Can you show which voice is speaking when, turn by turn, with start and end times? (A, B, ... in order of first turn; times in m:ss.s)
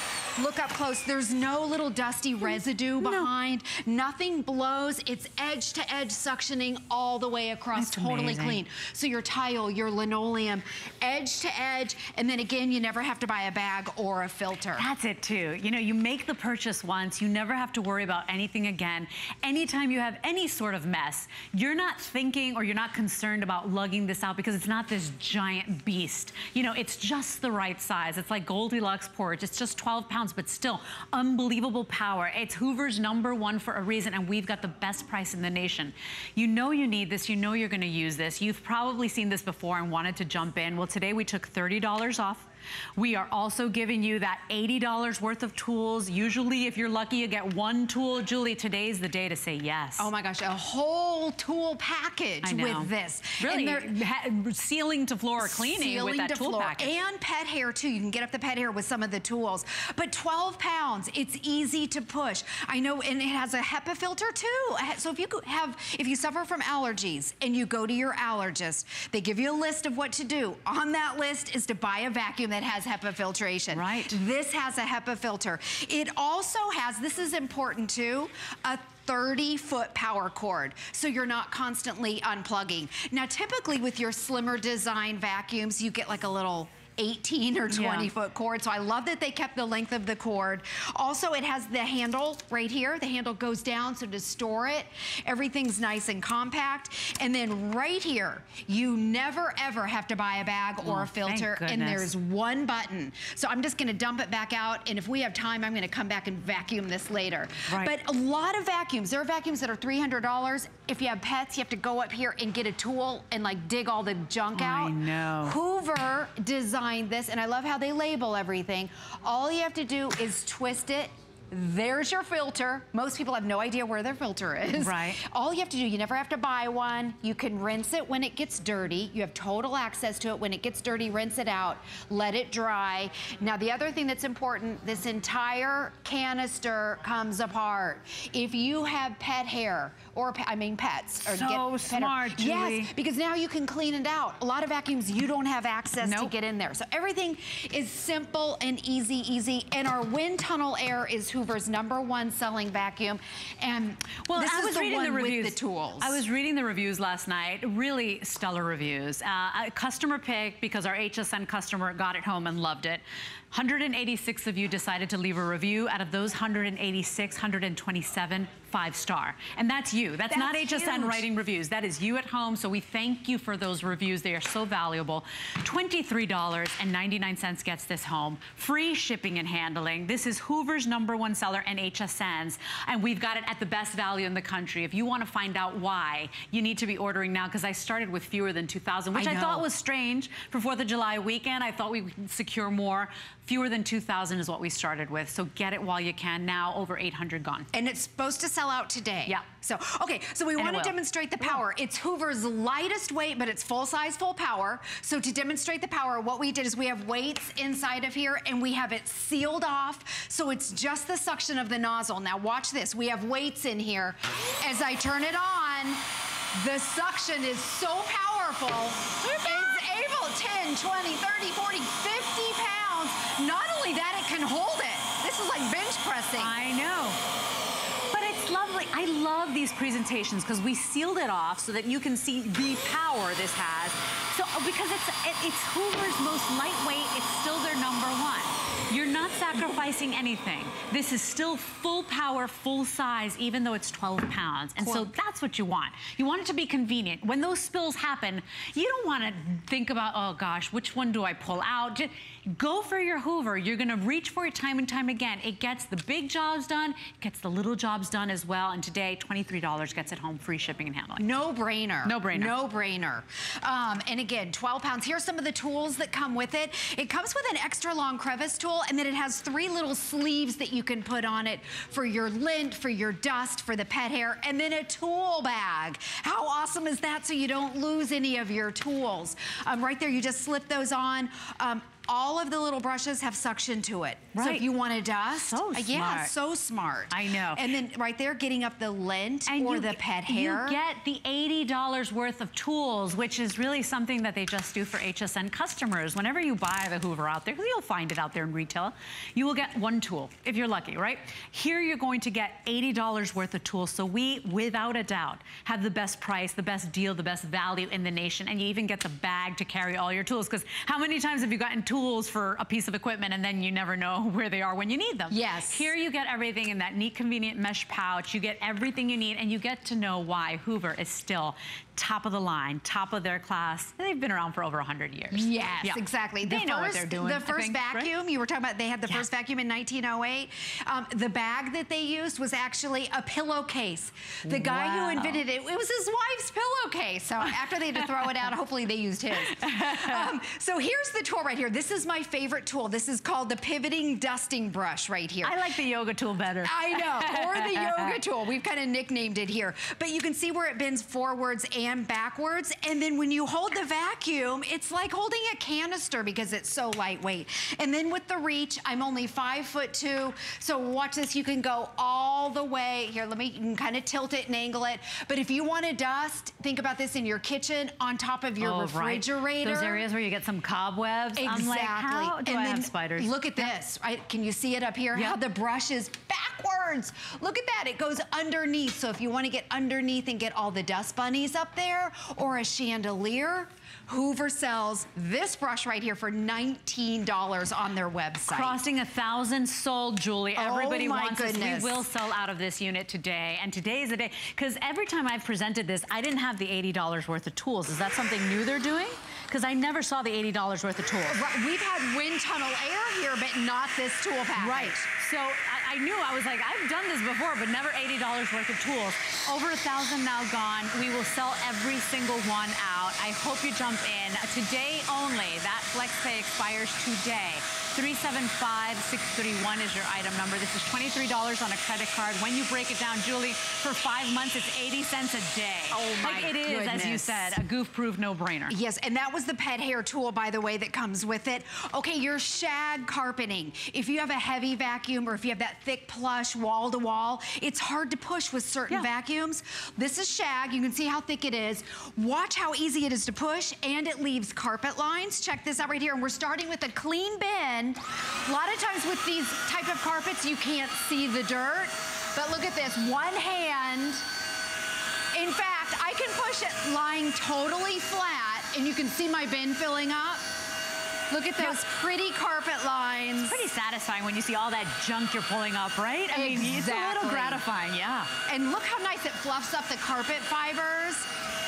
0:00.4-0:14.8 A
0:03.0-0:03.3 B
0:07.7-0:08.6 B
0:14.8-0:50.1 B
0:50.0-0:54.0 A
0:52.4-0:57.0 B
0:55.4-2:36.2 A
1:13.7-1:14.1 B
1:27.7-1:28.1 B
1:40.8-1:42.1 B
1:47.7-1:47.9 B
1:54.5-1:55.6 B
2:04.8-2:05.2 B
2:21.3-2:22.9 B
2:26.0-2:26.3 B
2:34.3-3:17.7 B
2:50.3-2:51.2 A
3:09.1-3:09.7 A
3:17.7-3:36.0 A
3:20.6-3:21.6 B
3:36.5-3:46.5 A
3:39.2-3:39.8 B
3:46.4-3:47.2 B
3:48.1-4:21.3 B
4:04.8-4:05.1 A
4:21.2-4:50.8 A
4:22.0-4:22.5 B
4:44.3-4:44.7 B
4:45.4-4:46.3 B
4:47.1-4:47.7 B
4:49.5-5:28.1 B
5:15.3-5:15.9 A
5:25.3-5:45.6 A
5:34.4-5:35.4 B
5:39.5-5:40.3 B
5:45.4-5:48.2 B
5:46.6-6:10.0 A
6:08.6-6:13.7 B
6:11.4-6:28.8 A
6:15.1-6:15.4 B
6:28.5-6:41.4 B
6:30.6-6:32.0 A
6:41.3-6:45.0 A
6:44.6-7:08.8 B
7:05.9-7:07.6 A
7:08.7-7:34.2 A
7:35.3-7:40.4 A
7:41.3-7:43.6 A
7:43.4-7:48.3 B
7:46.3-7:47.6 A
7:48.5-7:51.3 A